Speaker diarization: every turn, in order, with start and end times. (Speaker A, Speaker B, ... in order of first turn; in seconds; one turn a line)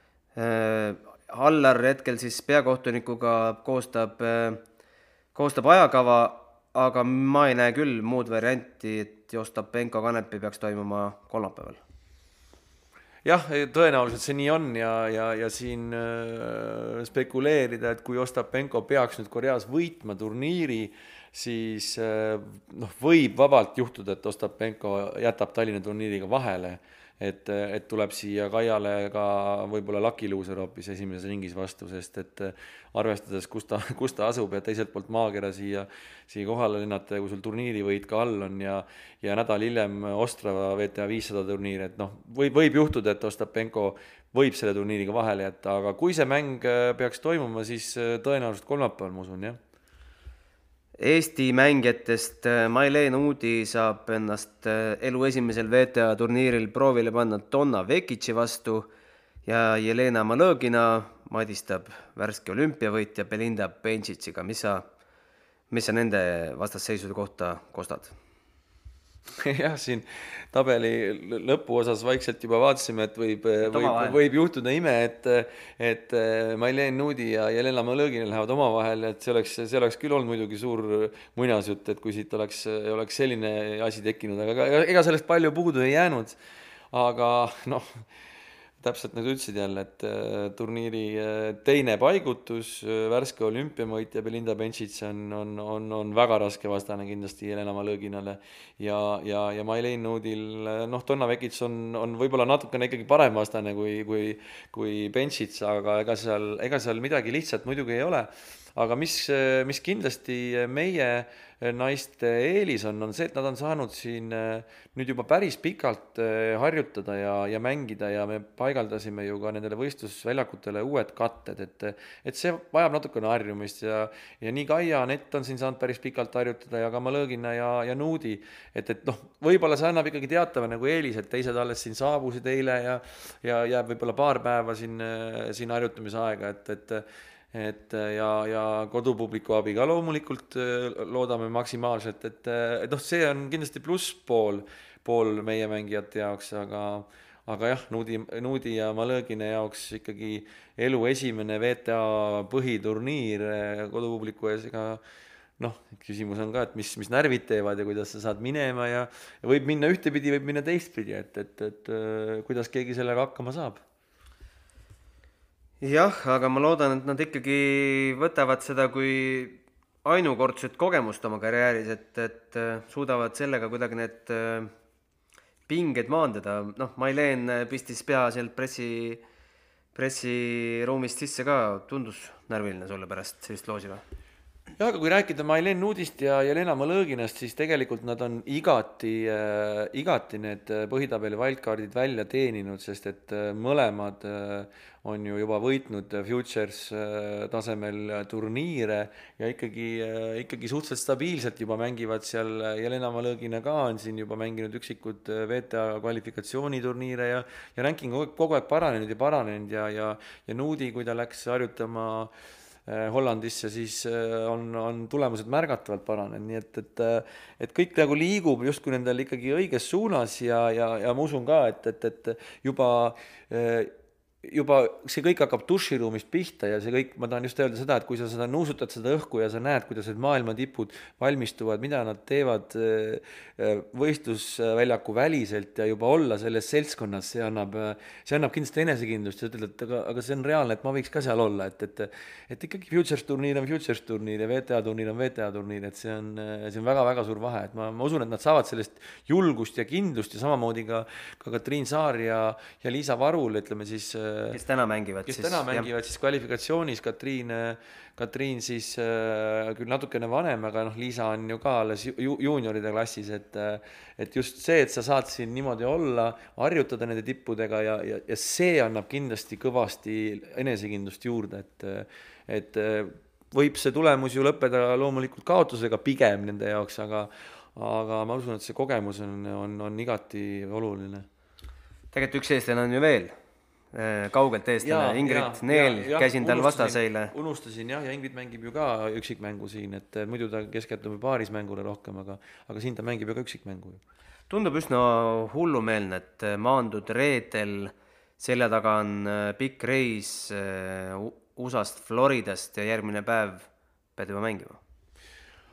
Speaker A: 0.4-4.6
Speaker A: 5.3-11.8
Speaker B: 13.2-49.6
Speaker A: 51.0-58.9
Speaker A: 59.5-64.9
Speaker A: 65.7-68.2
Speaker B: 69.3-86.4
Speaker A: 73.6-74.2
Speaker B: 86.9-88.1
Speaker B: 88.8-155.0
Speaker B: 155.6-163.8
Speaker A: 165.8-174.7
Speaker A: 175.7-179.2
Speaker A: 179.9-184.0
Speaker B: 184.8-212.3
Speaker B: 212.9-254.6
Speaker A: 254.5-255.9
Speaker B: 255.3-281.3
Speaker A: 282.1-283.3
Speaker A: 283.9-287.3
Speaker B: 284.8-294.0
Speaker A: 294.5-304.8